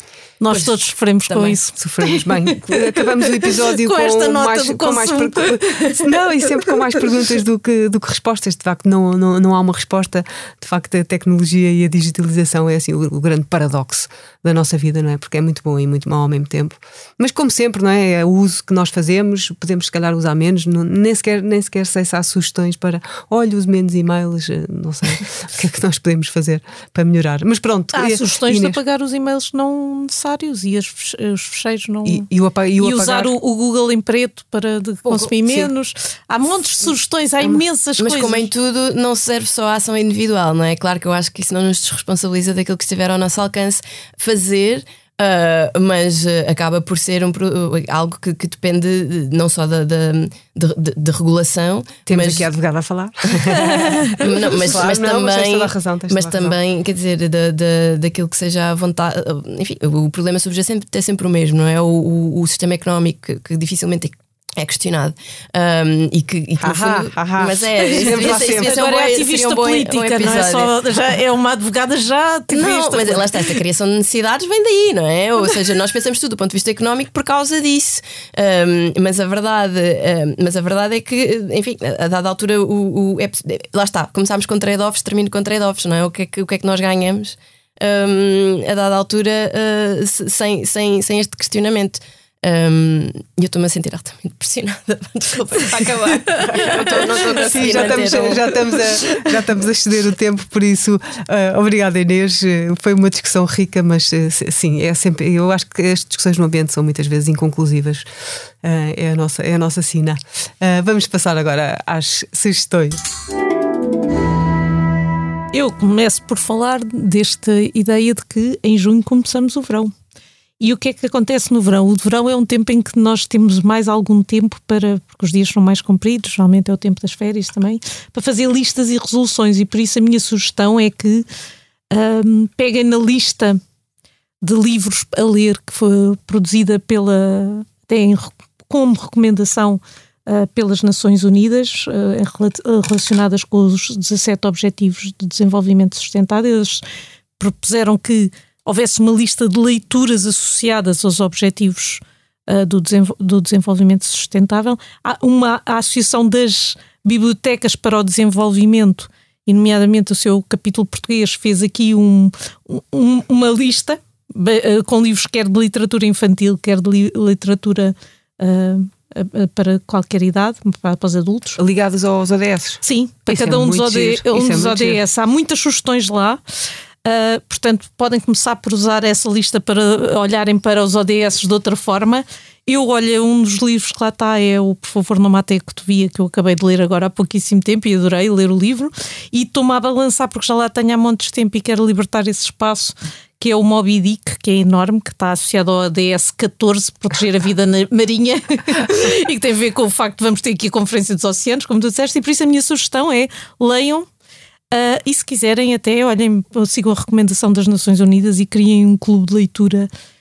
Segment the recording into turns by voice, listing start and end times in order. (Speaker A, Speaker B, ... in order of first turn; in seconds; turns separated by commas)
Speaker A: 0.4-6.2, Speaker B: 0.5-1.6, Speaker C: 1.8-28.8, Speaker A: 27.9-32.3, Speaker C: 32.0-33.3, Speaker A: 32.8-38.5, Speaker B: 38.0-52.5, Speaker C: 52.1-56.6, Speaker A: 53.5-54.2, Speaker B: 54.2-70.7, Speaker C: 66.6-68.7, Speaker A: 67.8-73.6, Speaker B: 72.5-98.6, Speaker A: 96.3-96.7, Speaker C: 96.4-108.0, Speaker C: 108.6-113.0, Speaker A: 115.5-119.9, Speaker A: 120.6-131.3, Speaker A: 131.9-133.6, Speaker A: 134.4-146.8, Speaker A: 147.4-171.6, Speaker C: 171.6-175.0, Speaker A: 172.8-176.4, Speaker A: 177.0-204.1, Speaker A: 204.7-209.9